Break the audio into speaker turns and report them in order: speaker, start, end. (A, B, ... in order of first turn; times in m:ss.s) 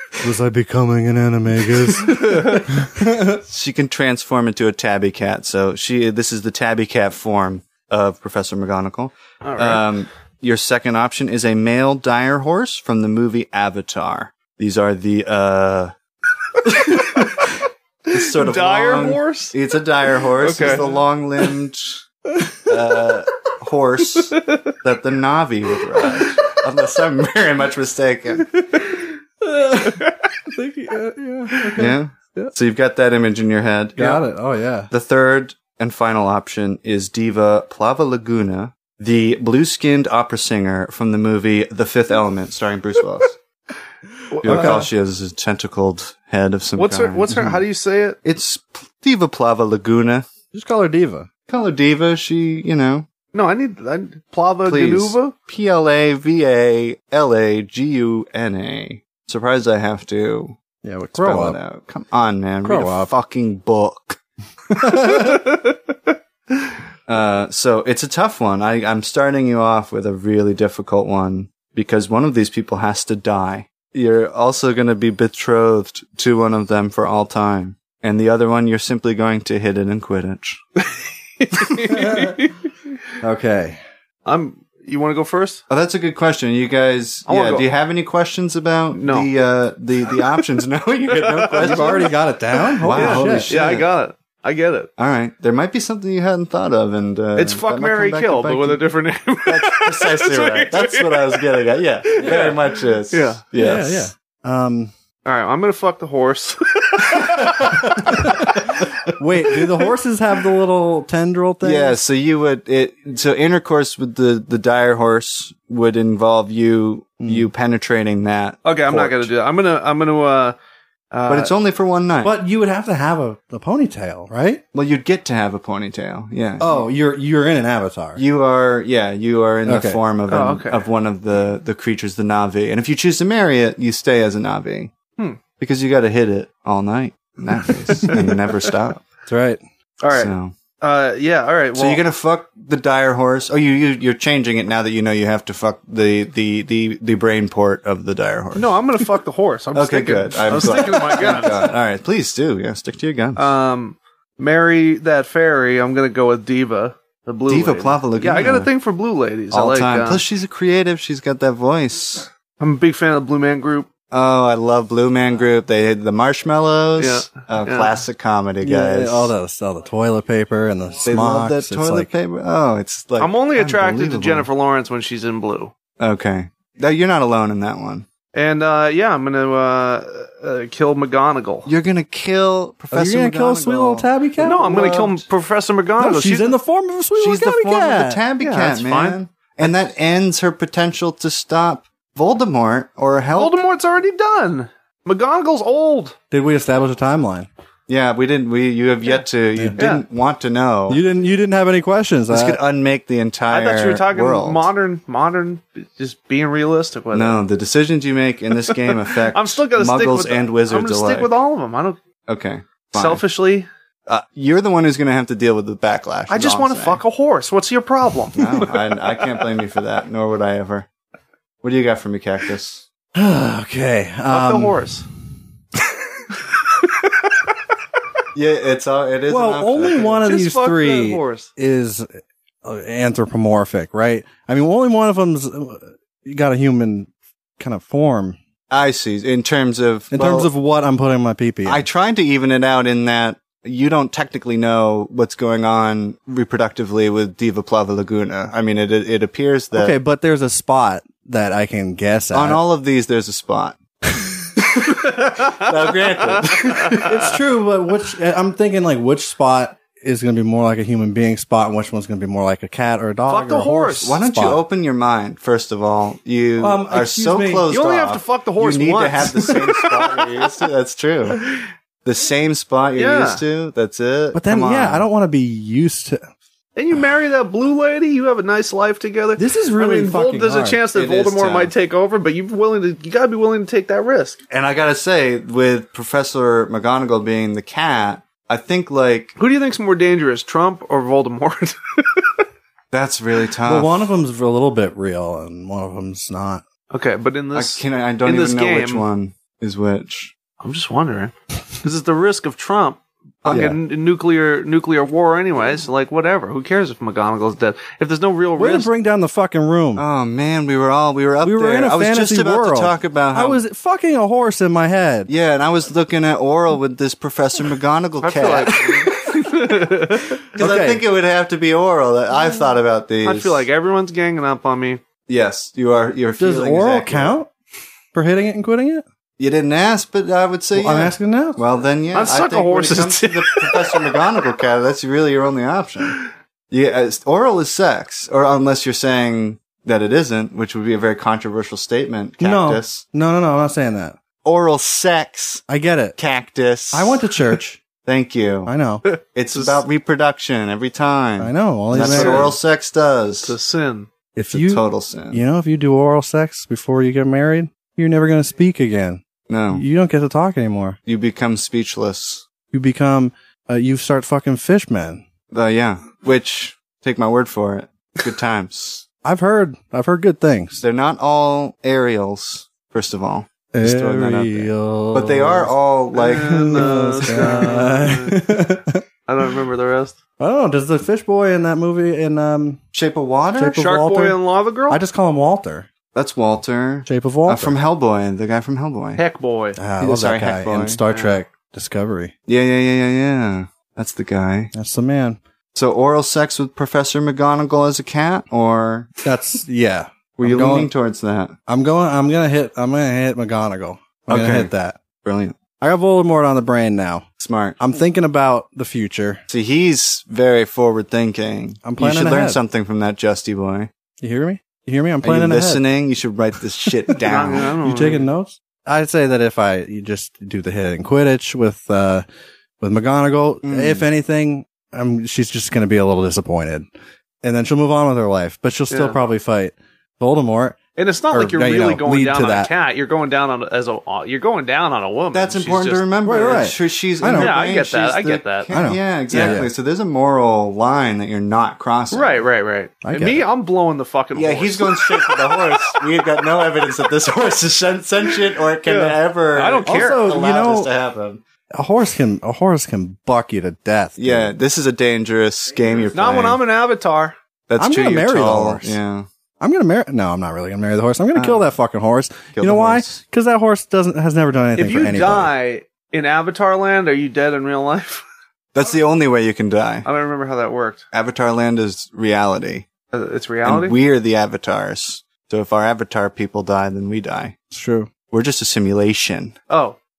0:00.2-0:03.4 A
0:02.1-0:02.6 B
0:03.3-0:15.9 C
0:09.4-0:09.8 B
0:16.6-0:17.5 C
0:18.1-0:22.0 C
0:18.2-0:19.6 B
0:20.2-0:21.0 B
0:22.6-0:28.7 C
0:29.4-0:32.5 A
0:29.9-0:30.3 B
0:31.8-0:34.2 C
0:34.0-0:34.9 A
0:34.9-0:43.4 C
0:44.3-0:44.9 B
0:44.4-0:47.4 C
0:44.4-0:44.9 A
0:46.8-0:48.2 B
0:47.3-0:47.6 A
0:48.2-0:50.3 C
0:50.5-0:51.3 A
0:51.5-0:53.1 C
0:53.3-0:55.3 B
0:54.6-1:00.6 C
1:00.8-1:01.6 A
1:01.1-1:04.2 C
1:02.6-1:03.1 A
1:04.7-1:05.4 A
1:07.1-1:20.6 C
1:21.4-1:22.6 B
1:21.9-1:22.4 A
1:23.2-1:23.8 A
1:24.2-1:25.6 B
1:25.7-1:32.1 C
1:27.3-1:27.7 B
1:28.9-1:29.3 B
1:31.1-1:34.9 B
1:31.6-1:33.5 A
1:32.8-1:33.9 C
1:35.0-1:38.8 C
1:37.4-1:43.4 B
1:39.4-1:44.1 C
1:43.6-1:44.9 A
1:45.2-1:48.8 B
1:48.0-1:52.0 A
1:49.5-1:49.9 B
1:51.6-1:59.3 C
1:57.2-1:57.5 A
1:58.6-2:00.6 B
2:01.1-2:01.5 B
2:01.3-2:02.3 C
2:02.2-2:04.6 A
2:04.7-2:06.9 C
2:06.6-2:08.2 A
2:08.2-2:14.9 C
2:09.6-2:10.0 A
2:10.3-2:10.8 B
2:15.6-2:19.0 C
2:18.1-2:18.4 B
2:19.3-2:19.6 A
2:20.0-2:22.0 B
2:20.1-2:20.5 C
2:21.7-2:28.8 C
2:28.5-2:31.7 B
2:29.7-2:33.5 C
2:33.4-2:40.2 B
2:37.5-2:38.7 C
2:39.5-2:42.3 C
2:42.6-2:43.9 B
2:44.1-2:49.3 C
2:47.0-2:48.0 B
2:48.6-2:52.1 A
2:51.0-2:54.5 C
2:53.2-2:55.7 B
2:56.0-2:58.0 C
2:58.3-3:01.7 B
3:01.6-3:04.1 C
3:02.9-3:05.2 A
3:04.4-3:06.5 B
3:06.0-3:08.2 A
3:07.2-3:13.6 C
3:08.4-3:09.2 B
3:13.3-3:16.2 B
3:16.3-3:17.5 A
3:17.9-3:21.0 C
3:19.8-3:20.0 B
3:20.9-3:22.6 A
3:22.3-3:24.7 C
3:23.5-3:27.4 B
3:27.1-3:31.3 C
3:28.6-3:32.0 B
3:32.3-3:33.2 C
3:32.9-3:33.7 B
3:34.1-3:37.0 C
3:36.3-3:39.0 B
3:38.3-3:40.9 C
3:41.6-3:42.8 C
3:43.1-3:44.8 A
3:44.3-3:45.1 B
3:48.3-3:50.2 C
3:49.3-3:58.4 A
3:50.0-3:51.5 B
3:58.7-4:00.5 C
4:00.1-4:01.9 A
4:01.6-4:09.9 C
4:09.7-4:12.6 A
4:12.3-4:13.8 C
4:14.4-4:17.3 C
4:17.0-4:24.6 A
4:23.3-4:24.1 B
4:24.0-4:31.4 C
4:26.6-4:27.7 A
4:27.7-4:30.3 B
4:32.0-4:35.0 C
4:33.0-4:33.4 B
4:34.3-4:36.2 A
4:36.8-4:44.4 B
4:39.4-4:40.8 A
4:40.9-4:41.7 C
4:44.5-4:49.4 C
4:49.4-4:52.4 B
4:52.9-4:54.1 C
4:53.6-4:56.6 A
4:56.9-4:59.0 B
4:57.5-5:00.3 C
5:00.6-5:08.9 B
5:03.4-5:03.8 C
5:03.5-5:03.8 A
5:08.6-5:10.0 A
5:10.0-5:13.6 C
5:11.4-5:15.3 A
5:15.3-5:19.4 C
5:18.2-5:20.4 B
5:18.8-5:19.1 A
5:20.5-5:21.0 A
5:20.5-5:23.6 C
5:23.2-5:25.0 B
5:25.3-5:27.4 C
5:26.4-5:27.5 A
5:28.1-5:29.0 A
5:29.4-5:43.0 C
5:30.7-5:31.6 A
5:32.1-5:34.3 B
5:42.4-5:44.2 A
5:44.4-5:45.6 C
5:45.7-5:46.2 A
5:46.2-5:47.4 C
5:46.9-5:47.8 A
5:48.0-5:48.7 C
5:48.7-5:49.0 A
5:49.1-5:49.8 B
5:49.3-5:53.5 C
5:51.4-5:52.5 A
5:51.9-5:52.6 B
5:53.4-5:54.1 B
5:54.4-6:01.0 A
5:54.5-5:55.4 C
5:59.5-5:59.8 C
6:01.0-6:02.4 C
6:02.7-6:05.2 A
6:05.5-6:09.0 C
6:09.2-6:10.8 A
6:10.8-6:17.9 C
6:13.7-6:15.7 A
6:16.1-6:18.5 B
6:16.5-6:19.0 A
6:19.2-6:20.2 B
6:20.4-6:22.8 A
6:22.9-6:23.8 C
6:23.6-6:25.9 A
6:23.8-6:25.0 B
6:26.1-6:29.2 C
6:27.1-6:27.8 A
6:29.2-6:29.8 B
6:29.8-6:32.3 A
6:30.0-6:31.0 C
6:31.1-6:31.4 B
6:32.5-6:34.7 C
6:34.7-6:35.4 A
6:35.7-6:39.2 C
6:39.2-6:40.9 A
6:40.4-6:41.6 C
6:41.7-6:45.0 A
6:44.3-6:45.6 C
6:45.8-6:47.2 A
6:47.4-6:47.8 C
6:47.8-6:49.4 A
6:49.5-6:53.9 C
6:51.8-6:52.6 A
6:54.2-6:55.8 A
6:55.2-6:57.7 C
6:57.2-6:58.3 B
6:57.8-7:02.2 A
7:02.8-7:06.8 A
7:03.6-7:04.1 C
7:07.4-7:10.8 A
7:08.9-7:09.2 B
7:11.0-7:16.6 B
7:11.3-7:12.7 A
7:15.3-7:22.4 C
7:16.2-7:17.5 A
7:17.2-7:18.7 B
7:18.7-7:19.7 A
7:19.3-7:19.6 B
7:22.1-7:26.9 B
7:23.0-7:23.5 A
7:24.3-7:31.4 C
7:28.3-7:30.3 B
7:29.8-7:30.9 A
7:31.7-7:34.5 A
7:34.2-7:36.6 C
7:36.1-7:37.3 B
7:37.7-7:39.3 C
7:37.8-7:39.0 A
7:39.6-7:45.5 A
7:41.3-7:41.6 C
7:42.5-7:43.2 C
7:44.8-7:48.2 B
7:48.7-7:50.1 C
7:50.0-7:51.0 B
7:51.1-7:52.9 C
7:53.1-7:54.0 B
7:53.6-7:57.6 C
7:57.7-7:58.1 A
7:58.3-7:59.6 C
7:59.7-8:00.0 B